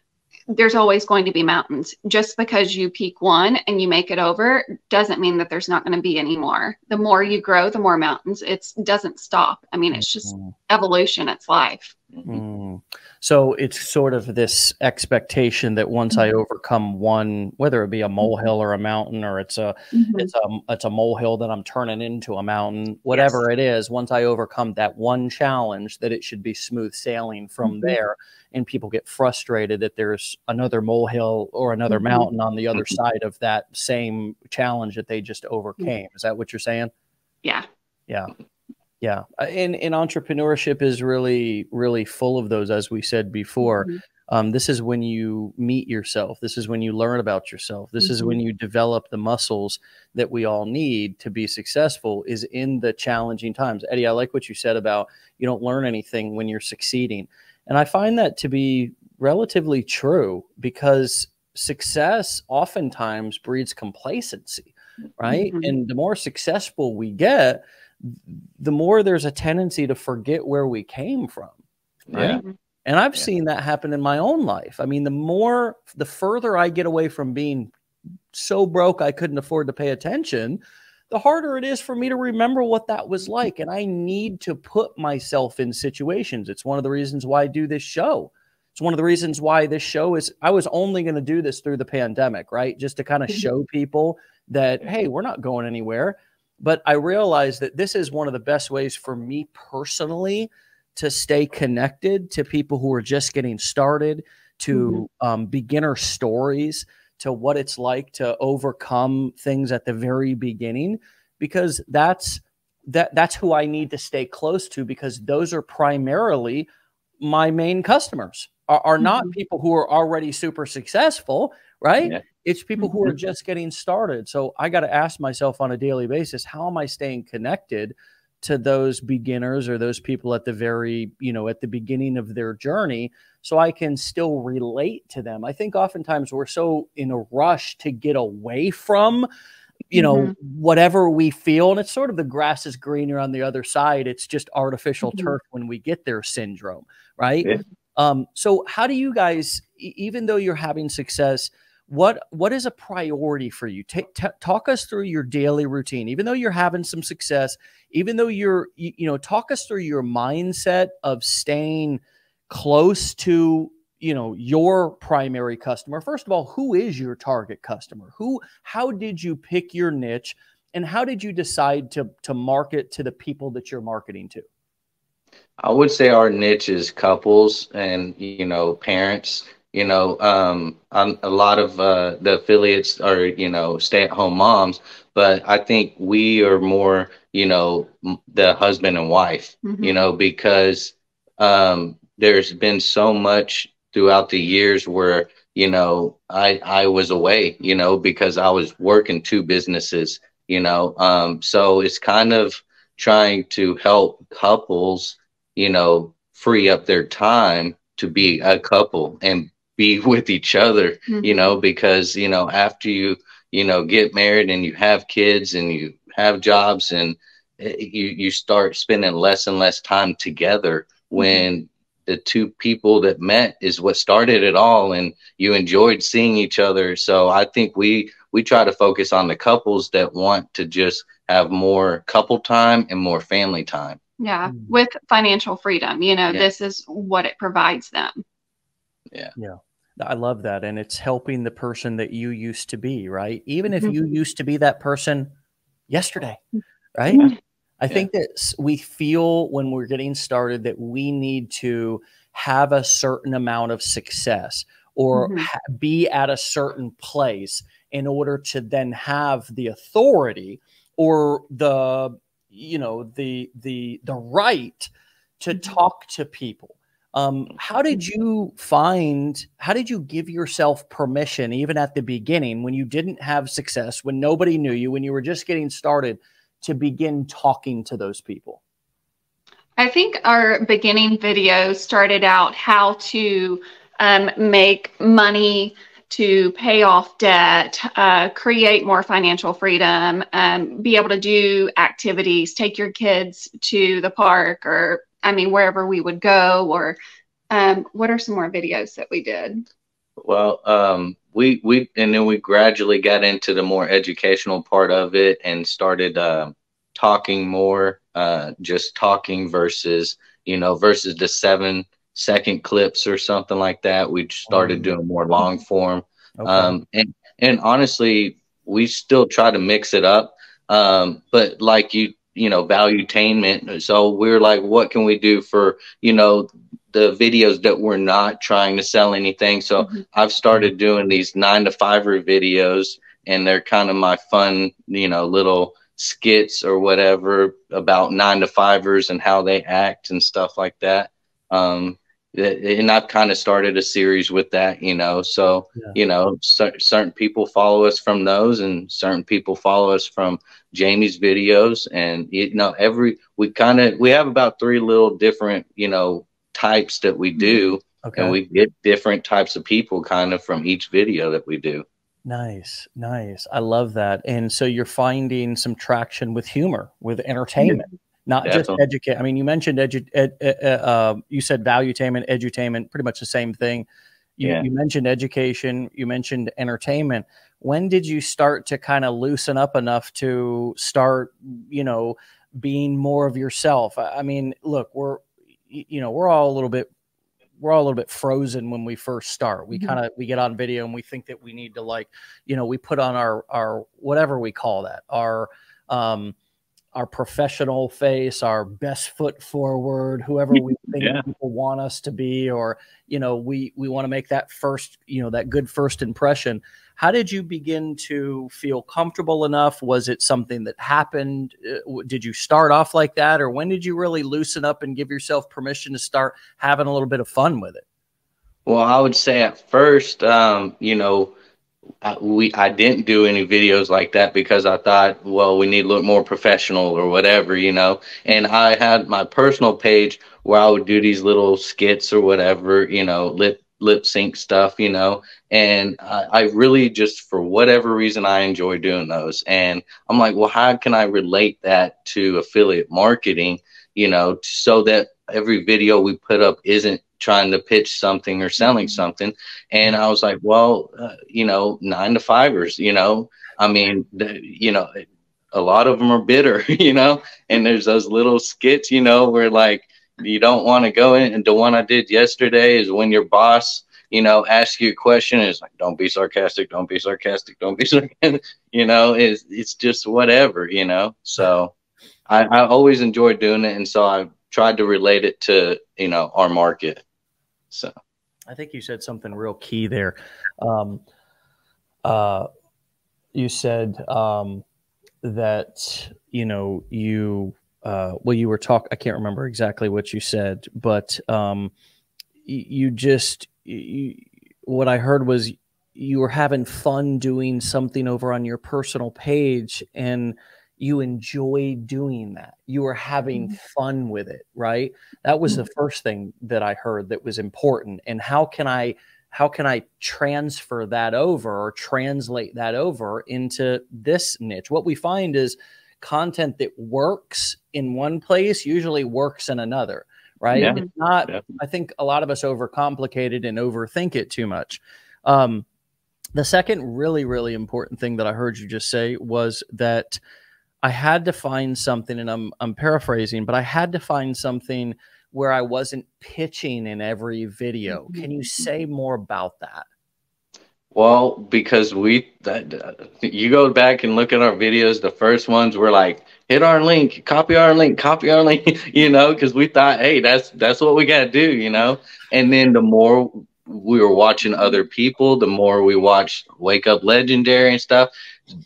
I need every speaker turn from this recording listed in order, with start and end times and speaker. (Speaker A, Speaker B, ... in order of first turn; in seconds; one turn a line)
Speaker A: 0.5-11.9
Speaker B: 9.9-10.5
Speaker B: 12.3-36.9
Speaker A: 19.9-20.3
Speaker A: 27.6-27.9
Speaker A: 31.9-32.3
Speaker B: 39.0-71.6
Speaker A: 43.6-44.0
Speaker A: 48.0-48.4
Speaker A: 65.3-65.7
Speaker C: 72.1-72.4
Speaker B: 72.1-77.7
Speaker B: 78.3-116.7
Speaker A: 104.7-105.0
Speaker B: 117.2-139.3
Speaker A: 119.0-119.3
Speaker B: 139.9-174.5
Speaker A: 139.9-140.3
Speaker C: 175.6-234.0
Speaker A: 189.6-190.0
Speaker A: 211.1-211.5
Speaker A: 221.2-221.4
Speaker A: 234.2-238.2
Speaker B: 234.5-234.7
Speaker B: 239.4-245.3
Speaker B: 245.9-246.4
Speaker B: 247.0-278.6
Speaker A: 255.1-255.5
Speaker A: 279.8-297.0
Speaker A: 297.5-299.6
Speaker C: 300.2-361.9
Speaker B: 314.5-314.9
Speaker B: 316.4-316.8
Speaker B: 358.0-358.4
Speaker B: 362.2-373.9
Speaker C: 368.4-368.8
Speaker B: 374.4-386.9
Speaker B: 387.6-396.4
Speaker B: 396.9-417.8
Speaker C: 401.0-401.2
Speaker C: 418.7-421.3
Speaker C: 422.0-471.7
Speaker C: 472.3-477.0
Speaker B: 478.5-481.0
Speaker B: 482.1-482.5
Speaker B: 483.3-484.6
Speaker B: 485.2-491.7
Speaker B: 492.4-525.6
Speaker C: 520.5-521.5
Speaker A: 520.6-520.9
Speaker B: 526.4-530.2
Speaker B: 530.8-539.9
Speaker C: 540.9-558.1